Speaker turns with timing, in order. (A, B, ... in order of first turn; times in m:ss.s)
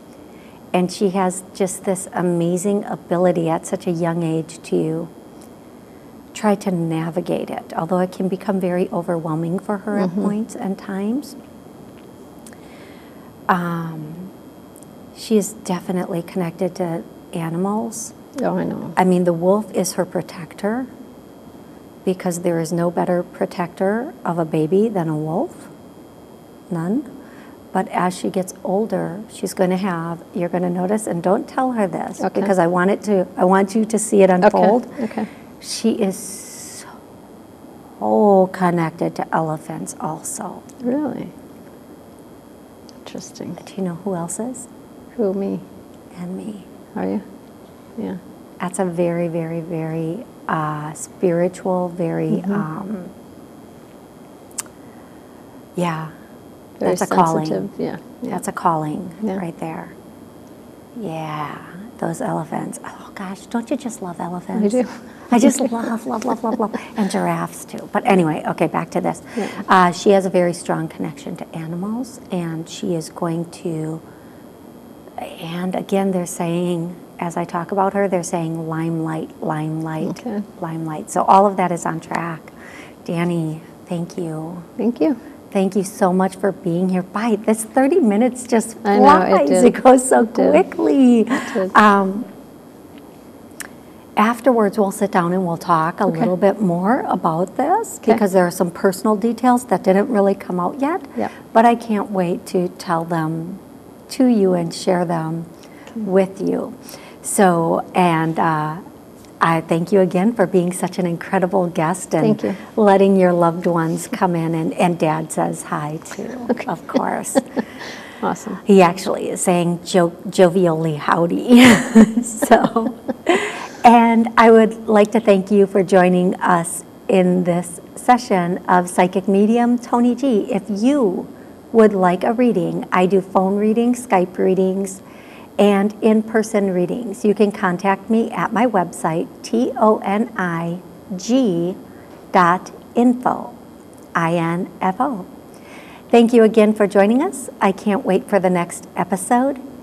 0:00.7-0:05.1 A
0:06.3-0:11.4 A
0:10.0-0:10.3 B
0:13.5-0:14.3 A
0:15.1-0:18.1 A
0:18.4-0:19.0 B
0:19.0-0:20.9 A
0:22.0-0:25.7 A
0:26.7-0:27.1 A
0:27.7-0:34.9 A
0:32.2-0:32.5 B
0:34.4-0:35.3 B
0:35.6-0:36.9 A
0:38.0-0:40.6 A
0:40.8-0:41.3 B
0:43.0-0:43.6 B
0:43.6-0:44.7 A
0:45.1-0:45.6 B
0:46.1-0:46.7 A
0:46.9-0:47.2 B
0:48.6-0:53.1 A
0:55.8-0:56.1 A
0:56.8-0:57.6 A
0:56.8-0:58.4 B
0:58.3-1:00.0 A
1:00.9-1:14.0 A
1:04.6-1:05.0 B
1:15.2-1:24.7 A
1:20.0-1:20.4 B
1:24.8-1:25.2 B
1:25.5-1:32.3 A
1:28.8-1:29.8 B
1:30.3-1:30.6 B
1:34.2-1:45.5 A
1:46.0-1:48.8 A
1:49.4-1:57.6 A
1:52.2-1:52.6 B
1:58.2-1:58.6 B
1:58.6-2:15.0 A
2:15.6-2:21.8 A
2:22.3-2:23.6 A
2:24.1-2:25.3 A
2:26.1-2:29.6 A